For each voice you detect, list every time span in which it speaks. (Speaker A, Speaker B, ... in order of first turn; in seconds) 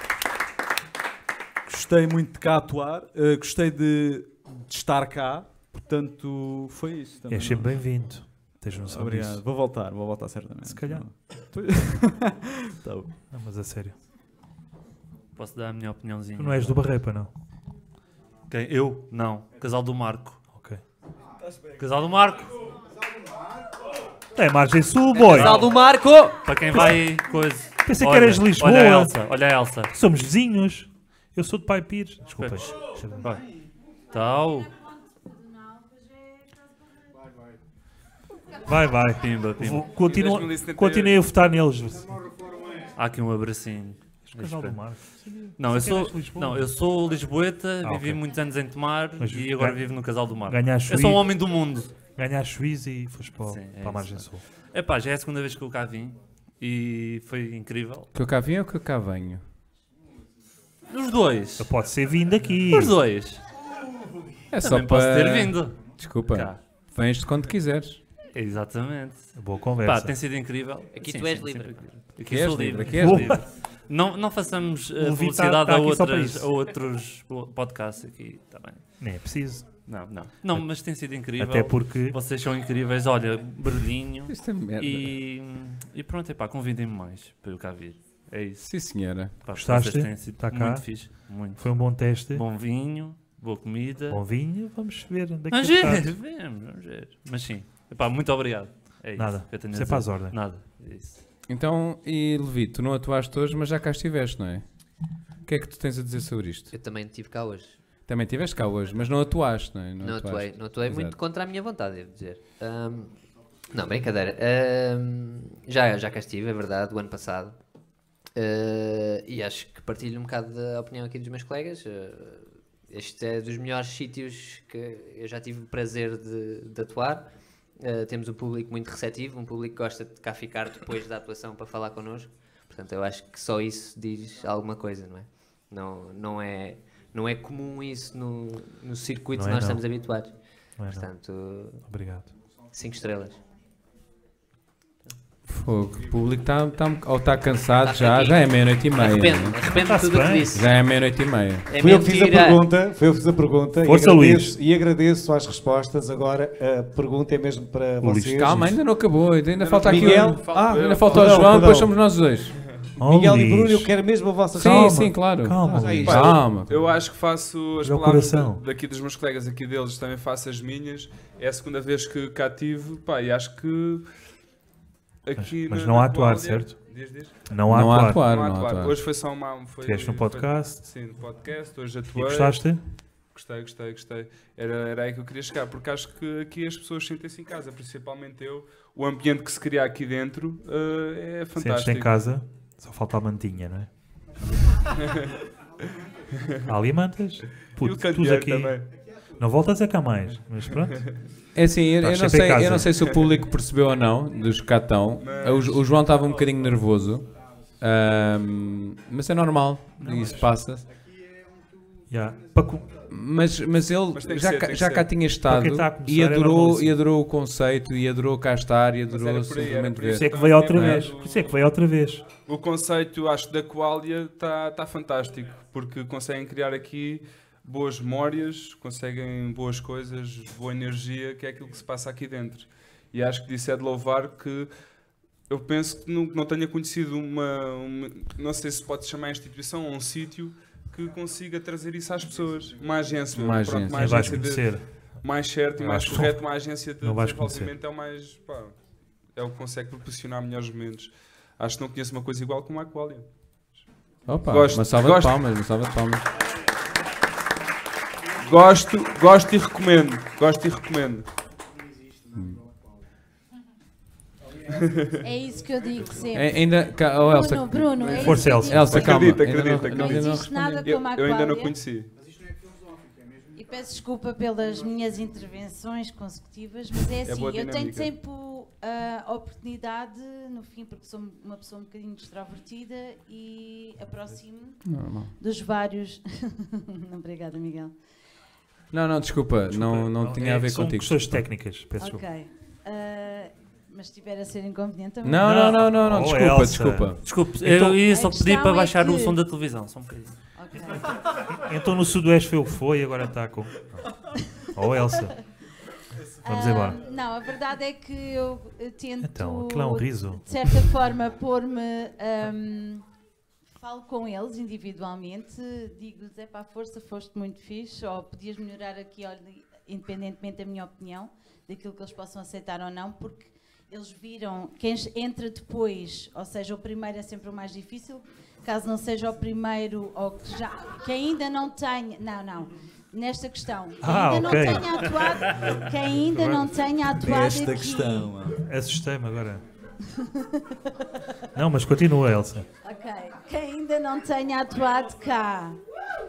Speaker A: 1.7-7.8, 8.9-13.1, 337.2-338.6
Speaker B: 7.3-9.4, 10.6-11.1, 13.3-14.0, 16.4-17.3, 20.5-20.8, 24.4-25.7, 26.7-27.0, 27.8-29.2, 29.9-33.3, 38.7-42.2, 44.3-46.7, 47.8-48.2, 49.2-49.9, 50.5-51.3, 52.2-54.4, 61.6-63.0, 69.3-70.2, 72.9-73.4, 75.0-76.5, 79.0-79.7, 81.2-82.2, 89.6-92.5, 94.1-96.1, 99.2-100.4, 139.3-139.8, 140.8-141.1, 141.9-142.3, 149.7-150.5, 153.8-154.6, 158.0-158.8, 163.0-163.9, 164.6-166.2, 167.8-168.6, 175.4-176.8, 177.5-178.2, 179.8-180.8, 182.1-182.8, 191.6-193.9, 196.7-198.8, 199.4-201.1, 202.0-202.9, 210.0-210.4, 212.1-212.9, 215.5-217.0, 220.1-222.2, 243.9-244.8, 245.8-246.4, 247.0-247.7, 268.2-268.9, 289.7-292.2, 295.4-298.0, 301.5-304.1, 304.7-305.3, 306.5-307.0, 309.2-310.8, 334.0-335.1, 336.3-336.7, 338.6-339.6, 341.6-342.7
Speaker C: 15.4-16.8, 18.5-20.4, 21.8-22.6, 25.1-29.9, 32.3-33.4, 34.1-34.7, 39.2-39.9, 43.0-44.8, 45.6-51.9, 53.5-58.1, 60.9-61.7, 62.7-63.4, 64.6-66.6, 68.3-78.8, 79.9-88.7, 89.4-94.2, 95.5-101.2, 297.2-300.4
Speaker D: 39.9-41.2, 159.6-161.7, 166.0-174.1, 175.2-177.3, 178.1-182.7, 183.3-192.1, 197.8-198.9, 205.2-205.8, 214.1-215.1, 219.1-221.6, 222.5-234.7, 235.5-248.8, 249.3-253.3, 254.5-255.4, 258.4-261.3, 264.8-265.1, 268.9-272.1, 277.2-278.1
Speaker E: 58.1-59.4, 64.5-68.0, 72.3-73.4, 84.3-85.1, 88.6-89.3, 101.5-104.7, 105.5-106.7, 108.1-111.2, 145.5-149.6, 150.5-151.7, 158.4-162.6, 164.6-166.8, 177.7-179.0, 201.6-207.3, 207.8-210.8, 213.1-221.1, 243.3-244.2, 254.3-256.2, 266.3-271.0, 284.9-285.3, 288.9-291.4, 295.2-297.2
Speaker F: 70.9-71.9, 106.7-107.8, 110.0-113.2, 113.7-117.6, 118.3-141.9, 142.7-143.4, 147.8-150.7, 151.7-152.7
Speaker G: 151.8-158.7, 159.8-161.9, 163.0-165.1
Speaker H: 265.2-266.6, 267.2-271.8, 273.6-284.8, 285.4-287.9, 292.0-295.6, 298.0-299.4, 300.6-301.1, 306.4-313.1, 313.8-338.3, 340.2-340.8, 342.8-345.8